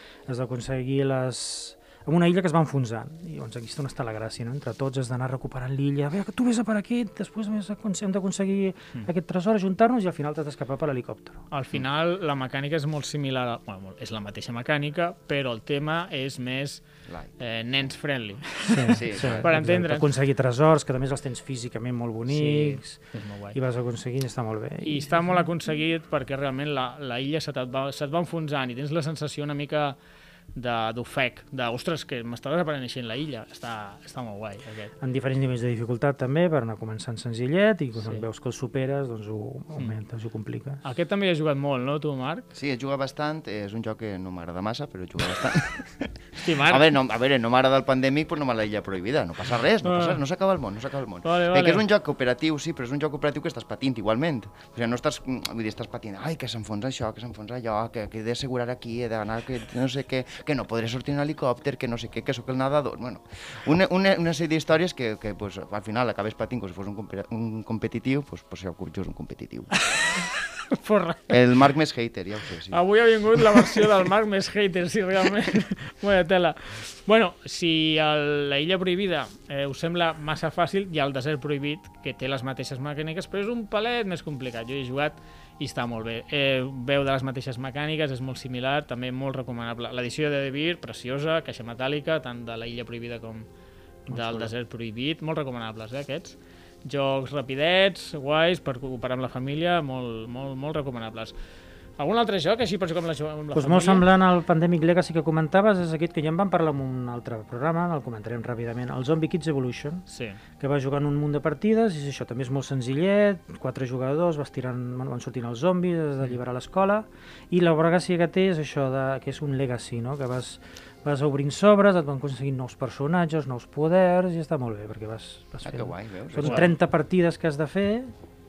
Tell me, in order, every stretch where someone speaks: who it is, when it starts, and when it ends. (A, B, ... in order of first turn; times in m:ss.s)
0:00.3-0:11.4 A
0:11.5-0:16.8 B
0:17.1-0:17.3 C
0:17.4-0:20.1 B
0:18.7-0:23.0 A
0:18.9-0:19.5 C
0:22.3-0:23.6 B
0:23.5-0:25.5 A
0:24.8-0:30.0 B
0:30.5-0:34.9 B
0:35.0-0:40.8 A
0:40.8-0:42.4 B
0:42.5-1:09.9 C
0:46.4-0:46.8 B
0:49.8-0:50.2 B
0:51.2-0:51.8 B
1:09.8-1:11.4 B
1:11.3-1:12.8 C
1:12.7-1:33.5 B
1:34.1-1:34.5 A
1:34.1-1:41.4 B
1:42.0-1:44.1 B
1:43.5-1:50.0 A
1:50.1-1:50.4 B
1:50.6-2:08.1 A
2:05.6-2:06.7 C
2:06.4-2:06.7 B